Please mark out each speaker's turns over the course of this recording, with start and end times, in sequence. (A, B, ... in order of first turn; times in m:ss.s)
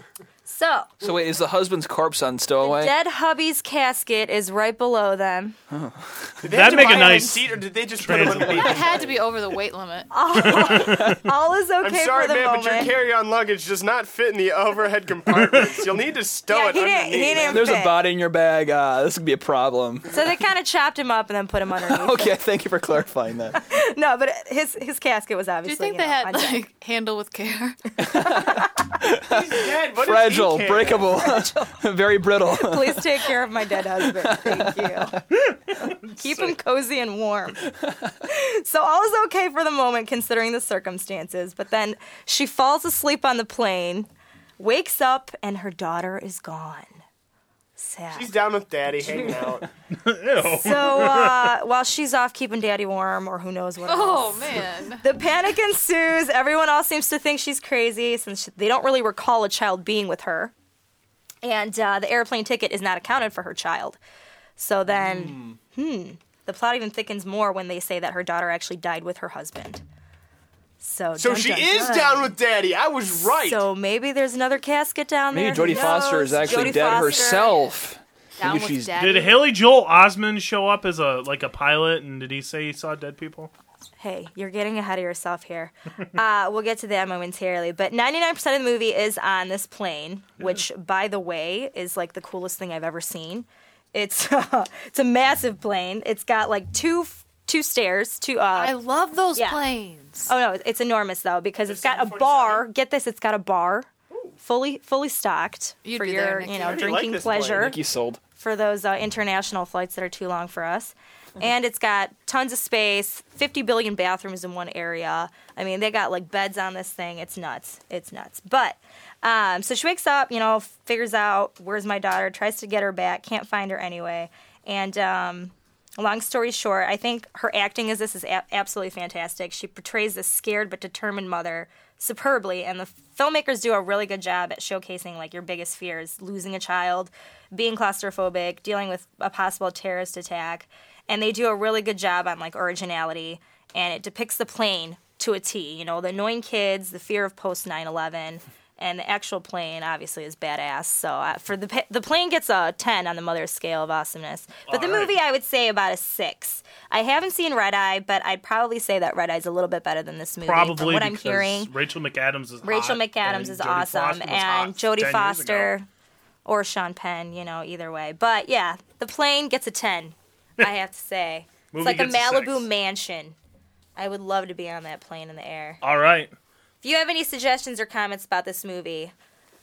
0:00.4-0:00.9 A
0:01.0-0:03.0 B
0:02.6-0:05.6 A
0:05.7-0:06.3 B
0:06.4-0:09.2 C
0:06.5-0:08.8 D
0:06.8-0:07.2 A
0:08.5-0:10.1 E
0:10.1-0:12.9 A
0:10.4-0:11.2 D
0:11.8-0:17.7 C
0:15.3-0:15.9 D
0:16.5-0:18.0 A
0:17.5-0:20.2 B
0:20.1-0:22.4 A
0:21.8-0:23.6 B
0:23.5-0:26.6 A
0:25.6-0:27.8 E
0:28.0-0:33.3 B
0:28.2-0:28.6 A
0:29.2-0:31.2 C
0:31.2-0:31.6 A
0:32.6-0:35.2 A
0:34.0-0:35.2 B
0:35.4-0:36.6 D
0:36.2-0:37.7 A
0:38.2-0:44.1 A
0:44.6-0:47.0 A
0:47.8-0:48.4 A
0:48.1-0:49.7 C
0:49.0-0:49.5 A
0:49.9-0:51.5 D
0:50.4-1:00.5 A
0:53.8-0:55.0 E
1:01.4-1:04.0 A
1:04.6-1:09.8 A
1:04.9-1:05.6 B
1:10.8-1:12.3 A
1:11.2-1:13.6 C
1:13.1-1:17.6 A
1:15.3-1:19.0 B
1:18.4-1:19.5 E
1:19.0-1:23.5 D
1:24.0-1:38.8 A
1:38.6-1:40.3 E
1:39.4-1:39.6 A
1:40.2-1:47.8 A
1:41.7-1:42.6 C
1:45.8-1:47.0 E
1:46.5-1:47.7 C
1:47.5-1:48.2 B
1:48.4-2:41.7 A
2:34.7-2:35.2 D
2:40.4-2:45.7 D
2:42.6-2:45.9 A
2:46.5-2:53.4 A
2:51.7-2:52.7 D
2:54.0-2:55.8 A
2:55.8-2:56.3 D
2:56.8-2:59.1 A